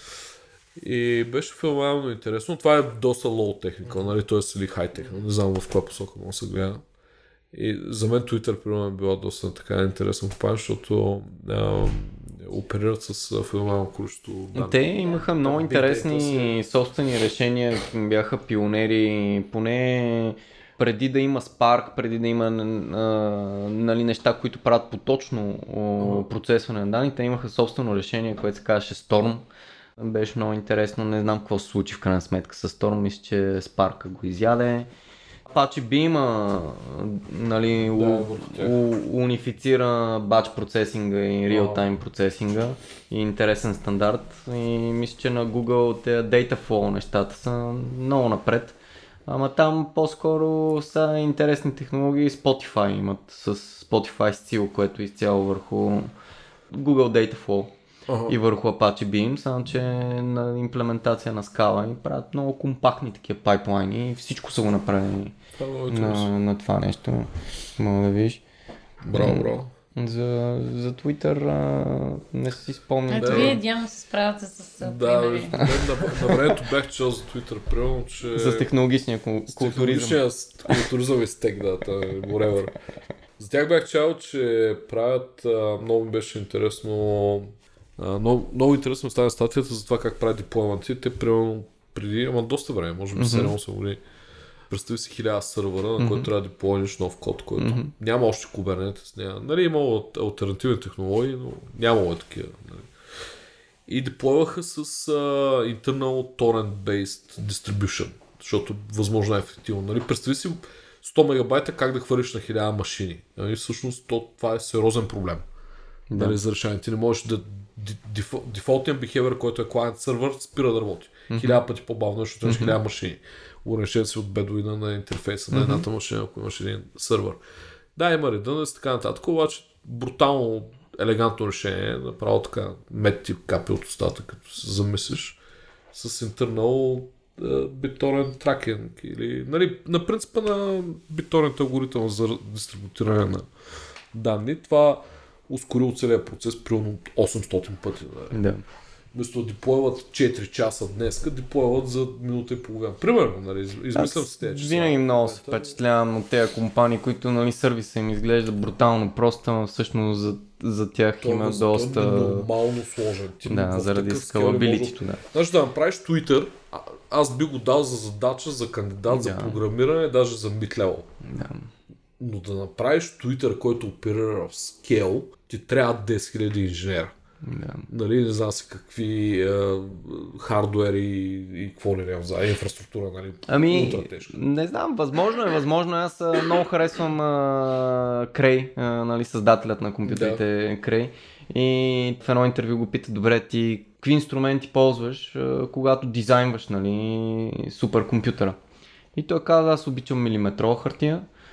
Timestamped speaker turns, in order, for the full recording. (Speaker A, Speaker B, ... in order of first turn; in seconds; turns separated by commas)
Speaker A: 0.8-6.8, Speaker A: 7.5-16.6, Speaker B: 14.6-29.5, Speaker A: 26.0-26.3, Speaker B: 30.0-34.9, Speaker B: 35.5-56.1, Speaker A: 37.9-38.8, Speaker A: 41.5-41.9, Speaker B: 56.7-57.8, Speaker A: 58.1-58.4, Speaker B: 58.3-65.4, Speaker A: 65.6-66.3, Speaker B: 65.9-68.4, Speaker A: 69.1-69.7, Speaker B: 69.1-73.6, Speaker C: 73.1-75.6, Speaker A: 73.2-73.6, Speaker A: 74.8-78.7, Speaker B: 75.7-76.5, Speaker B: 78.3-80.8, Speaker A: 79.5-82.8, Speaker A: 83.4-94.0, Speaker B: 93.2-93.5, Speaker A: 94.7-103.0, Speaker B: 96.0-96.3, Speaker B: 97.6-97.9, Speaker A: 103.9-115.5, Speaker B: 116.1-116.4, Speaker A: 116.2-127.4, Speaker B: 121.3-121.6, Speaker B: 122.4-122.8, Speaker B: 125.5-125.9, Speaker A: 128.0-135.4, Speaker A: 135.9-143.5, Speaker A: 144.1-148.4, Speaker B: 148.3-148.6, Speaker A: 149.1-155.8, Speaker B: 153.9-162.5, Speaker A: 161.2-171.1, Speaker B: 163.4-165.2, Speaker B: 169.1-169.6, Speaker B: 171.2-171.7, Speaker A: 172.2-177.1, Speaker B: 177.4-177.9, Speaker A: 177.9-184.4, Speaker B: 183.5-198.6, Speaker A: 190.1-190.4, Speaker B: 199.2-201.2